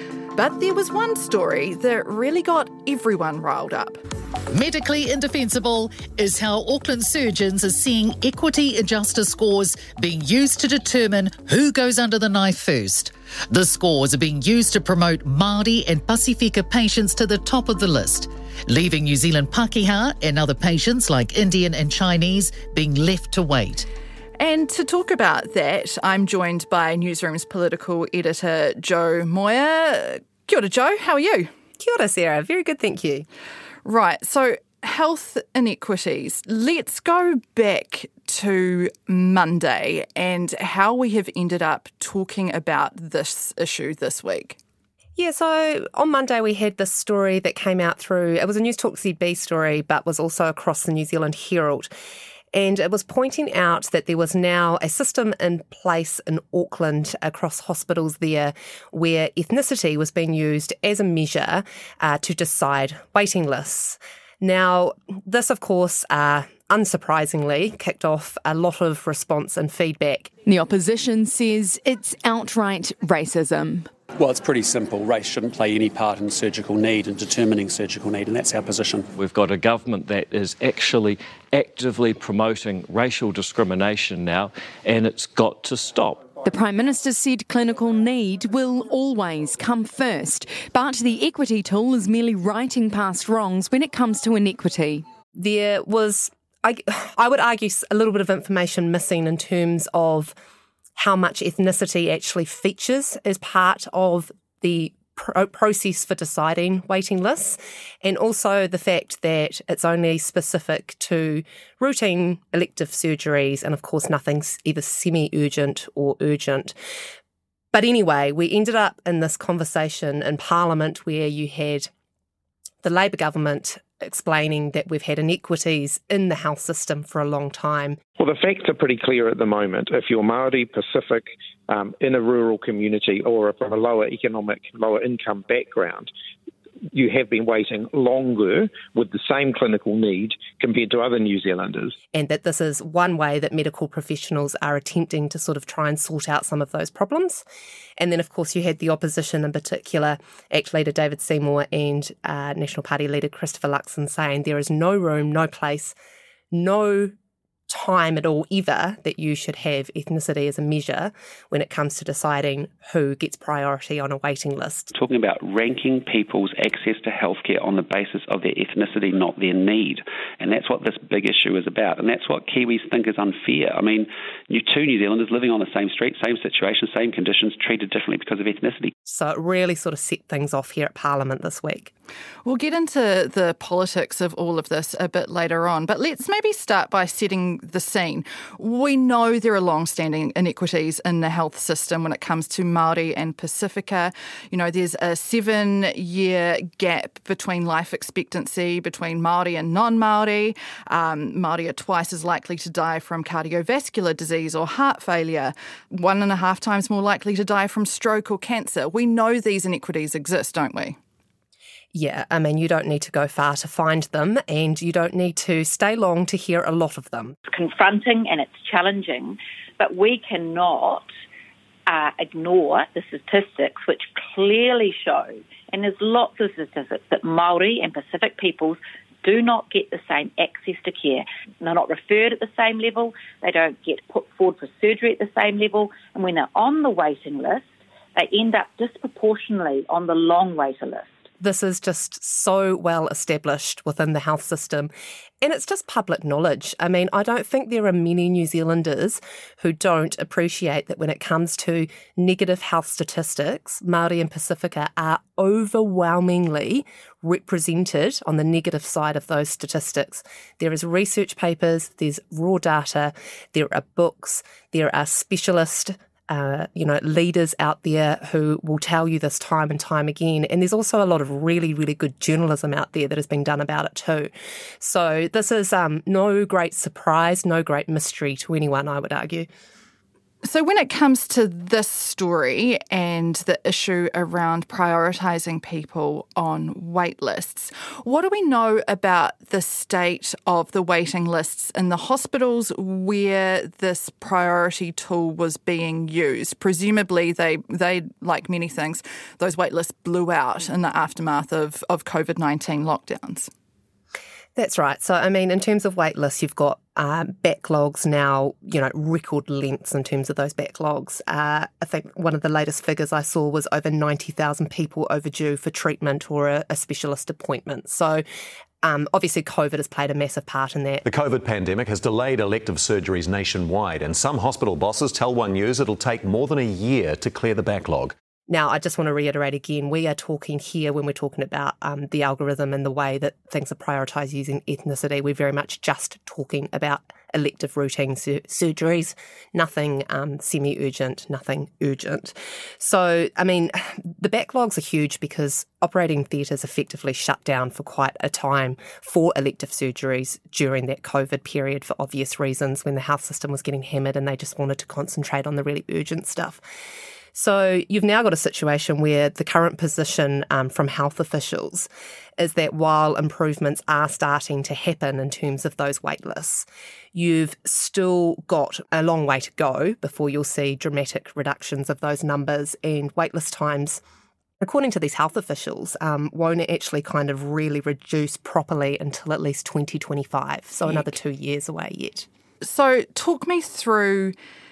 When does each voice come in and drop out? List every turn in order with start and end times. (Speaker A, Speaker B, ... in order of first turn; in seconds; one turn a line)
Speaker A: 0.3-4.0
Speaker B: 4.5-23.9
Speaker A: 24.4-31.5
Speaker C: 31.8-33.3
Speaker A: 33.8-44.6
Speaker C: 45.1-51.9
Speaker C: 52.5-70.3
Speaker D: 70.4-73.9
Speaker E: 74.2-79.1
Speaker F: 79.1-86.3
Speaker D: 86.4-95.0
Speaker C: 95.3-100.3
Speaker C: 101.0-116.7
Speaker C: 117.7-121.9
Speaker C: 122.8-128.0
Speaker G: 128.2-136.1
Speaker G: 136.9-141.9
Speaker C: 142.1-147.4
Speaker C: 148.0-155.9
Speaker C: 156.5-157.1
Speaker C: 157.7-164.9
Speaker H: 164.9-178.9
Speaker C: 179.1-181.9
Speaker A: 182.4-211.0
Speaker C: 211.9-217.3
Speaker I: 217.5-221.1
Speaker I: 221.9-241.1
Speaker C: 241.4-279.5
Speaker A: 280.4-303.5
Speaker C: 304.6-318.2
Speaker C: 318.8-321.0
Speaker J: 321.0-328.1
Speaker C: 328.5-356.6
Speaker C: 357.3-374.0
Speaker C: 374.6-382.3
Speaker A: 382.6-384.3